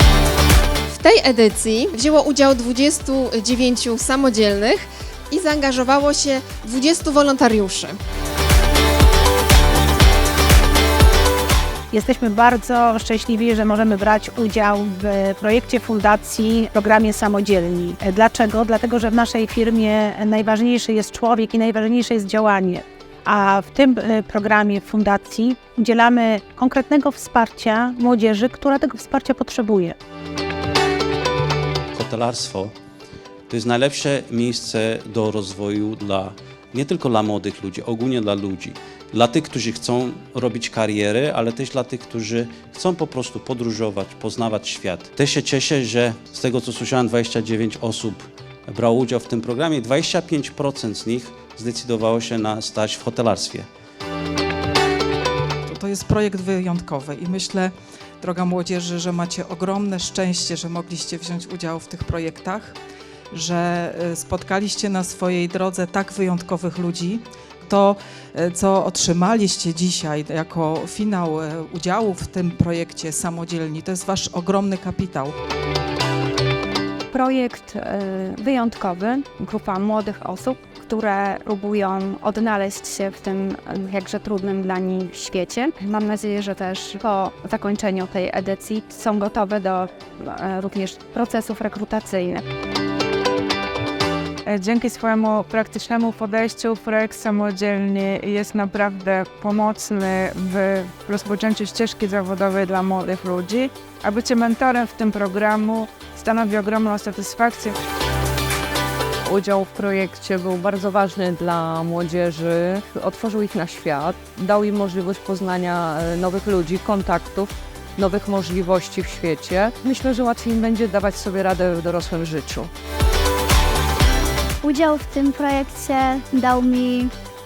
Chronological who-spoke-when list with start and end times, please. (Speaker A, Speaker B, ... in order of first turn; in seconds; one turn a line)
Speaker A: 0.9-8.0
Speaker B: 11.9-30.0
Speaker C: 31.9-32.7
Speaker C: 33.5-53.7
Speaker D: 55.7-62.8
Speaker D: 63.3-75.3
Speaker E: 77.1-92.5
Speaker F: 94.5-107.8
Speaker G: 109.2-122.7
Speaker H: 124.6-127.1